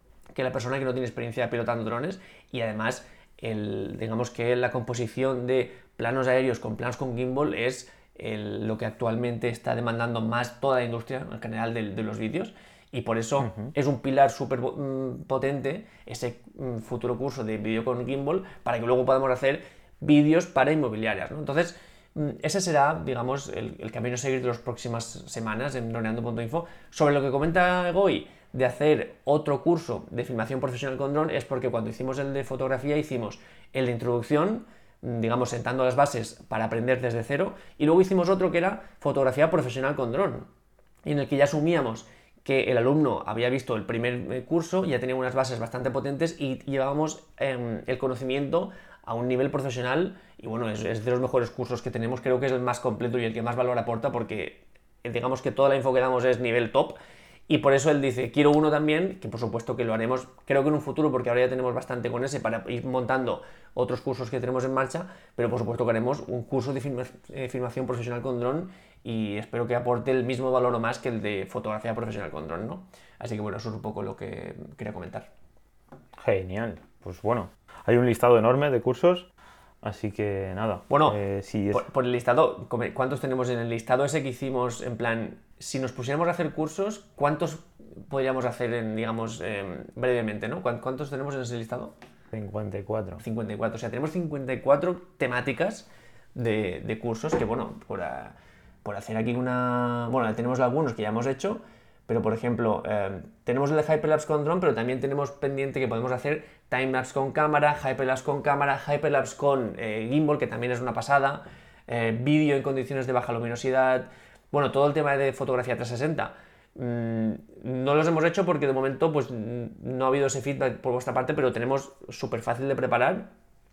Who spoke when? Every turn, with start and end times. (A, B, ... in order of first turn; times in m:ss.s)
0:00.3-0:40.5 A
0:13.4-0:13.7 B
0:41.0-0:57.0 A
0:57.5-1:15.3 A
1:16.2-1:19.3 B
1:19.8-1:21.9 B
1:20.9-1:21.2 A
1:21.7-1:31.9 A
1:32.3-1:33.2 B
1:33.2-2:03.3 A